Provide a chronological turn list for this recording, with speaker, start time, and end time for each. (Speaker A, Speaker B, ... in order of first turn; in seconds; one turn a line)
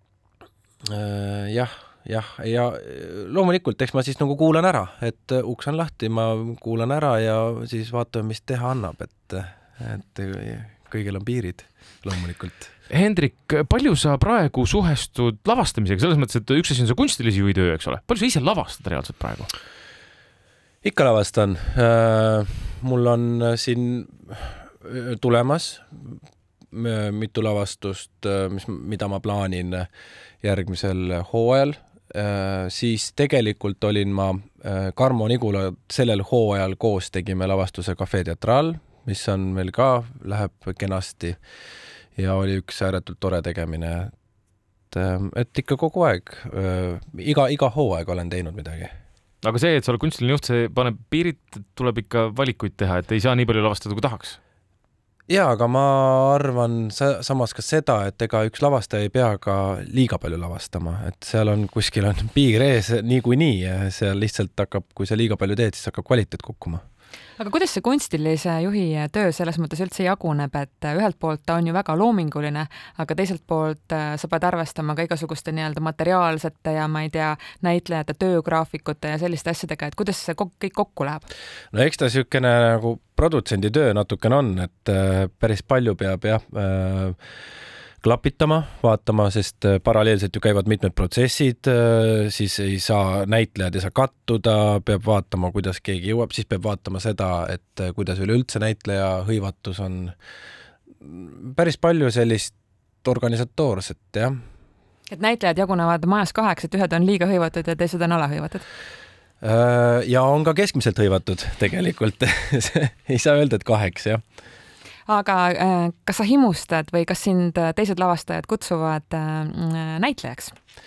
Speaker A: 0.8-12.7
Speaker B: 12.9-19.5
Speaker A: 20.8-26.2
Speaker A: 26.7-29.9
Speaker A: 30.4-41.4
Speaker A: 42.1-44.1
Speaker A: 44.9-48.9
Speaker B: 49.4-54.4
Speaker A: 55.3-66.8
Speaker C: 67.4-81.3
Speaker A: 81.7-87.2
Speaker A: 88.0-100.1
Speaker A: 101.0-104.4
Speaker C: 105.1-108.6
Speaker A: 109.4-114.2
Speaker C: 115.1-120.5